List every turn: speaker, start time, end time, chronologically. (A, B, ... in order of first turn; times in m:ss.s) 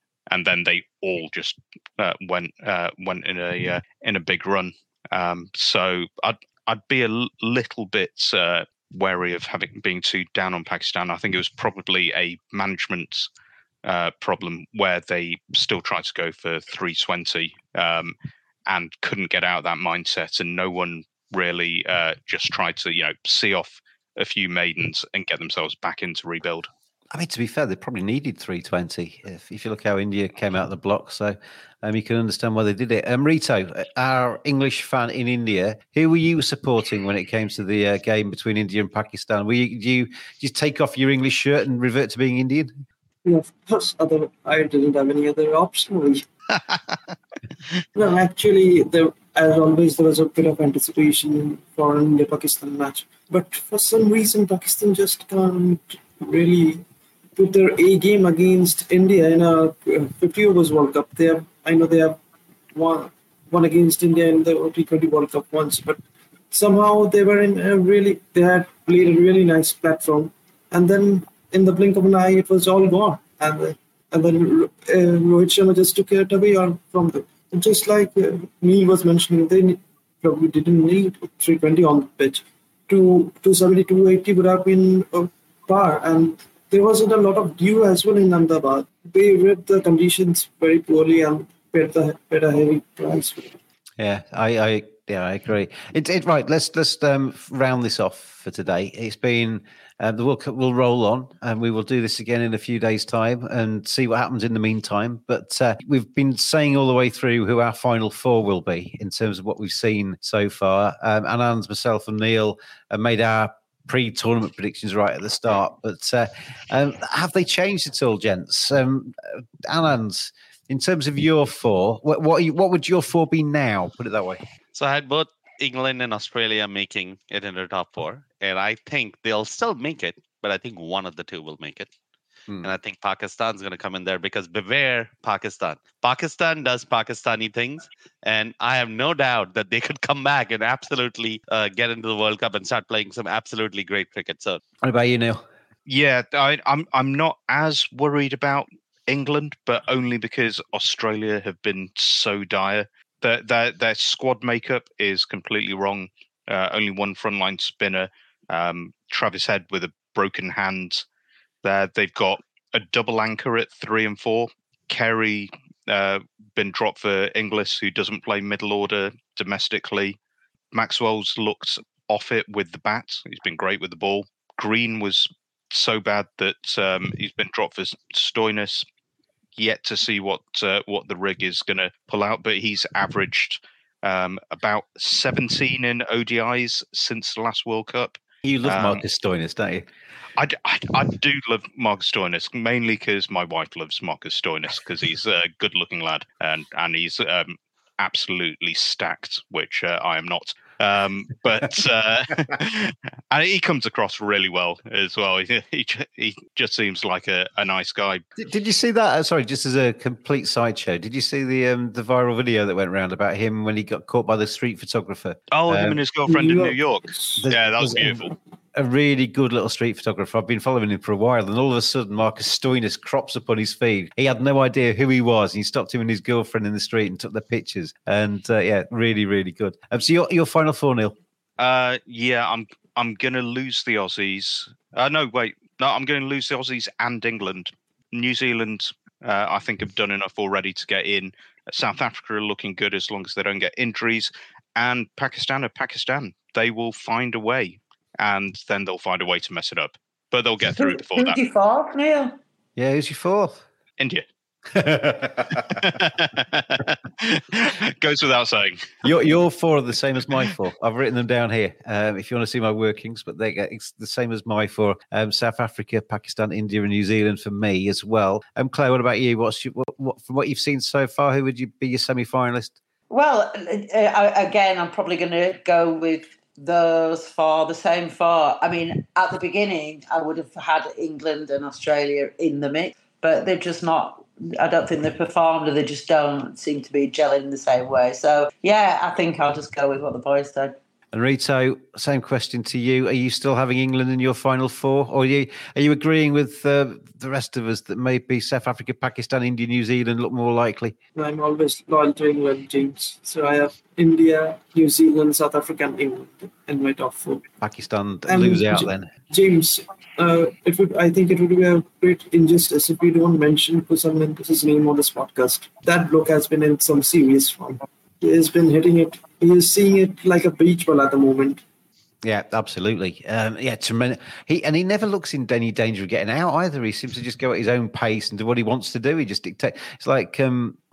0:00.3-0:13.3 A
0:13.8-0:18.1 A
0:18.7-0:26.7 A
0:27.1-0:42.8 B
0:43.2-0:46.2 C
0:48.0-0:56.8 C
0:57.4-1:02.2 C
1:02.7-1:06.0 C
1:06.5-1:33.6 C
1:34.0-2:04.4 B
2:04.7-2:11.9 D
2:12.6-2:24.6 D
2:24.8-2:25.4 B
2:25.9-2:41.0 A
2:41.6-2:50.2 A
2:50.7-2:58.9 A
2:59.6-3:09.0 A
3:08.4-3:09.9 B
3:10.4-3:28.2 A
3:28.4-3:36.0 B
3:35.5-3:38.3 A
3:36.3-3:37.4 C
3:37.4-3:38.2 B
3:38.8-3:51.2 B
3:51.6-4:11.4 A
4:10.8-4:12.4 E
4:12.8-4:13.6 B
4:14.0-4:14.2 A
4:14.7-4:16.0 B
4:15.7-4:19.0 A
4:19.0-4:32.8 B
4:33.1-4:50.8 E
4:51.1-5:01.0 B
5:01.2-5:07.4 C
5:07.6-5:09.1 B
5:08.3-5:21.6 C
5:22.2-5:30.8 B